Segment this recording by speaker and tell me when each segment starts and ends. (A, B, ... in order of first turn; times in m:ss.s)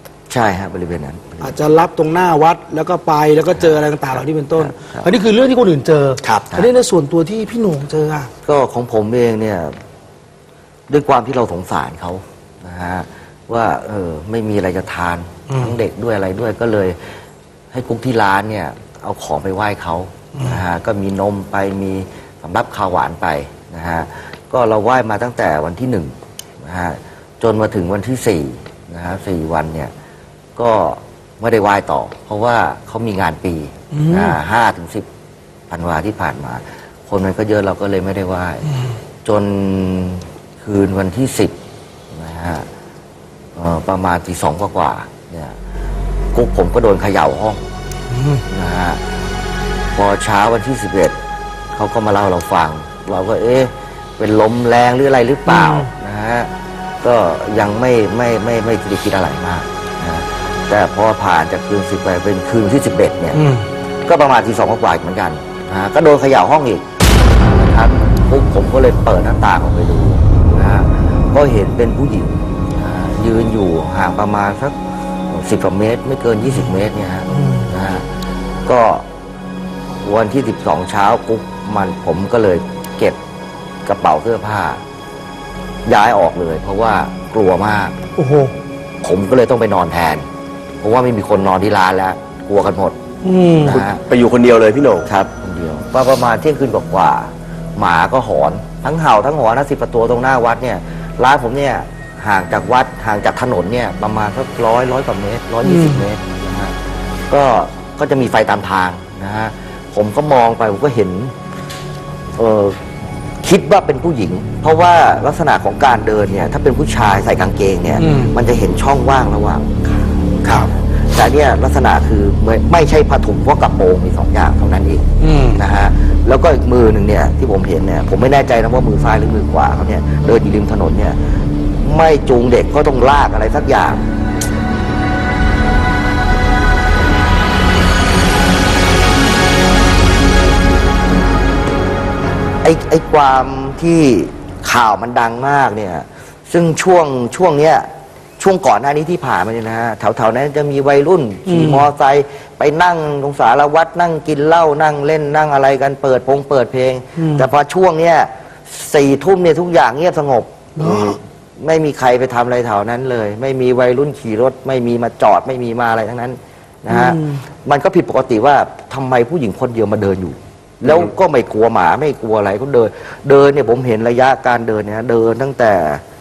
0:00.3-0:01.6 A
0:01.4-0:08.3 B
0:03.6-0:03.8 A
0:04.6-0:05.1 A
0:06.2-0:06.6 C
0:08.4-0:09.8 A
0:10.9-0:17.0 A
0:15.5-0:15.8 B
0:17.7-0:29.9 A
0:20.4-0:20.6 B
0:30.6-0:35.1 A
0:33.9-0:34.4 B
0:35.7-0:38.7 A
0:39.2-0:41.6 A
0:42.1-0:42.7 A
0:43.6-0:45.6 A
0:46.3-0:47.6 A
0:48.1-0:48.4 B
0:48.5-0:49.0 A
0:50.0-0:51.2 A
0:51.7-0:56.5 A
0:55.5-0:55.8 B
0:57.0-1:03.4 A
1:03.3-1:03.7 B
1:04.1-1:06.9 A
1:07.4-1:14.8 A
1:15.3-1:18.1 A
1:18.7-1:19.0 A
1:20.0-1:23.2 A
1:23.8-1:24.8 A
1:25.9-1:28.0 A
1:28.2-1:28.5 B
1:29.0-1:30.2 A
1:30.8-1:33.0 A
1:33.2-1:33.8 B
1:33.5-1:34.0 A
1:33.7-1:35.1 C
1:35.0-1:46.8 A
1:45.6-1:46.0 B
1:47.3-1:51.3 A
1:52.4-1:52.8 A
1:53.4-2:11.2 A
1:58.0-1:58.4 B
2:00.4-2:00.7 C
2:05.2-2:05.6 B
2:11.8-2:14.0 A
2:22.6-2:27.9 A
2:28.4-2:56.0 A
2:31.5-2:31.8 B
2:37.2-2:37.5 B
2:40.8-2:41.2 B
2:40.8-2:41.2 C
2:46.9-2:47.4 B